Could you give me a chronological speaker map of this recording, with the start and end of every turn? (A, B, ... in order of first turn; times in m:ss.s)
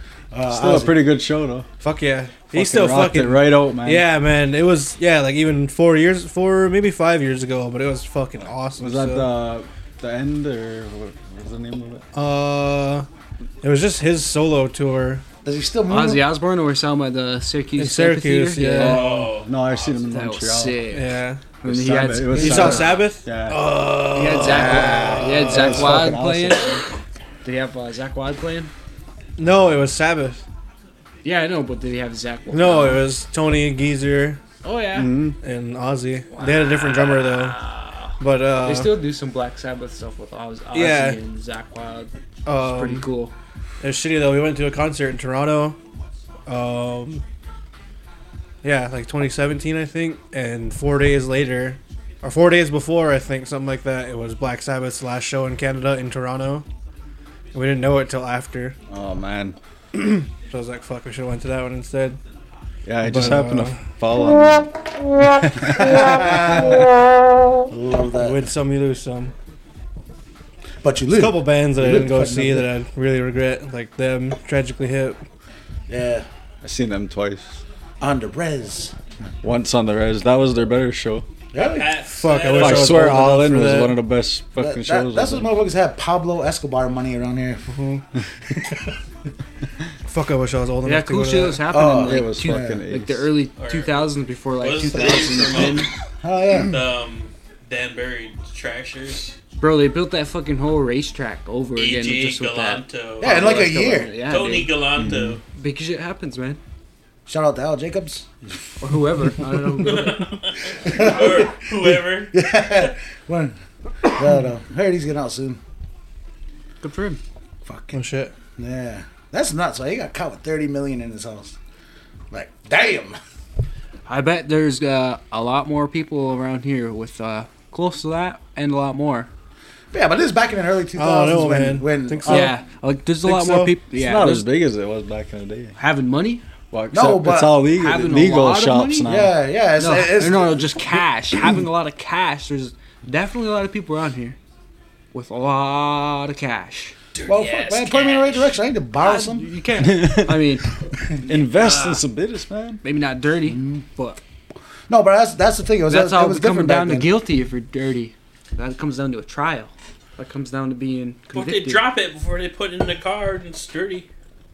0:00.3-0:01.1 A
0:00.5-0:01.7 B
0:01.8-0:09.3 C
0:02.5-0:04.1 B
0:08.8-0:12.0 B
0:12.1-0:13.1 C
0:13.6-0:15.2 C
0:15.4-0:16.3 A
0:15.9-0:19.4 D
0:17.8-0:19.1 C
0:18.8-0:19.5 E
0:18.9-0:20.8 B
0:20.1-0:23.1 D
0:20.9-0:21.4 C
0:21.6-0:23.8 B
0:22.3-0:25.8 C
0:24.1-0:26.8 D
0:24.6-0:24.9 B
0:24.8-0:26.8 A
0:25.6-0:26.2 B
0:27.4-0:28.7 D
0:29.4-0:30.4 C
0:31.2-0:33.1 D
0:32.5-0:34.4 C
0:34.6-0:35.2 D
0:34.9-0:35.4 B
0:35.4-0:37.6 C
0:36.3-0:43.3 D
0:38.2-0:39.0 C
0:40.7-0:41.2 C
0:42.5-0:43.1 C
0:43.8-0:45.8 C
0:46.5-0:47.2 C
0:48.6-0:56.7 C
0:57.5-0:58.8 C
0:58.9-0:59.6 B
1:00.0-1:02.2 C
1:02.8-1:04.8 B
1:03.0-1:03.8 C
1:05.4-1:06.6 B
1:05.7-1:06.9 A
1:07.7-1:08.4 A
1:08.2-1:09.3 C
1:10.8-1:12.7 A
1:11.1-1:15.2 C
1:15.9-1:16.3 A
1:16.6-1:17.6 B
1:18.0-1:19.0 A
1:19.4-1:21.3 B
1:21.5-1:22.0 A
1:21.6-1:23.1 E
1:22.1-1:24.0 C
1:22.5-1:25.5 B
1:24.6-1:27.8 A
1:27.7-1:28.0 C
1:30.1-1:31.6 C
1:30.8-1:35.9 D
1:31.7-1:32.8 A
1:32.0-1:33.4 B
1:33.6-1:35.9 E
1:36.2-1:36.8 A
1:36.6-1:39.4 E
1:39.6-1:44.8 D
1:41.8-1:43.4 E
1:43.2-1:44.1 A
1:44.3-1:45.4 E
1:45.0-1:45.4 B
1:45.5-1:46.6 D
1:47.3-1:48.5 A
1:48.8-1:50.4 D
1:49.8-1:52.4 E
1:50.8-1:55.6 A
1:56.8-1:57.2 D
1:57.6-1:58.0 A
1:57.9-1:58.3 C
1:58.6-2:01.6 A
2:02.3-2:03.2 A
2:04.1-2:09.3 D
2:09.9-2:12.6 A
2:11.0-2:12.6 C
2:12.3-2:14.5 D
2:13.2-2:13.8 C
2:13.9-2:15.8 B
2:15.8-2:16.4 D
2:16.7-2:19.4 B
2:16.9-2:17.6 A
2:17.6-2:19.1 D
2:19.0-2:20.8 A
2:19.8-2:24.4 D
2:25.1-2:27.0 D
2:27.2-2:28.6 E
2:27.3-2:29.5 A
2:29.0-2:30.7 D
2:29.8-2:30.6 B
2:31.2-2:32.8 B
2:31.6-2:32.0 E
2:32.8-2:34.2 D
2:33.5-2:33.8 A
2:34.9-2:37.2 A
2:35.9-2:41.9 D
2:41.3-2:44.1 E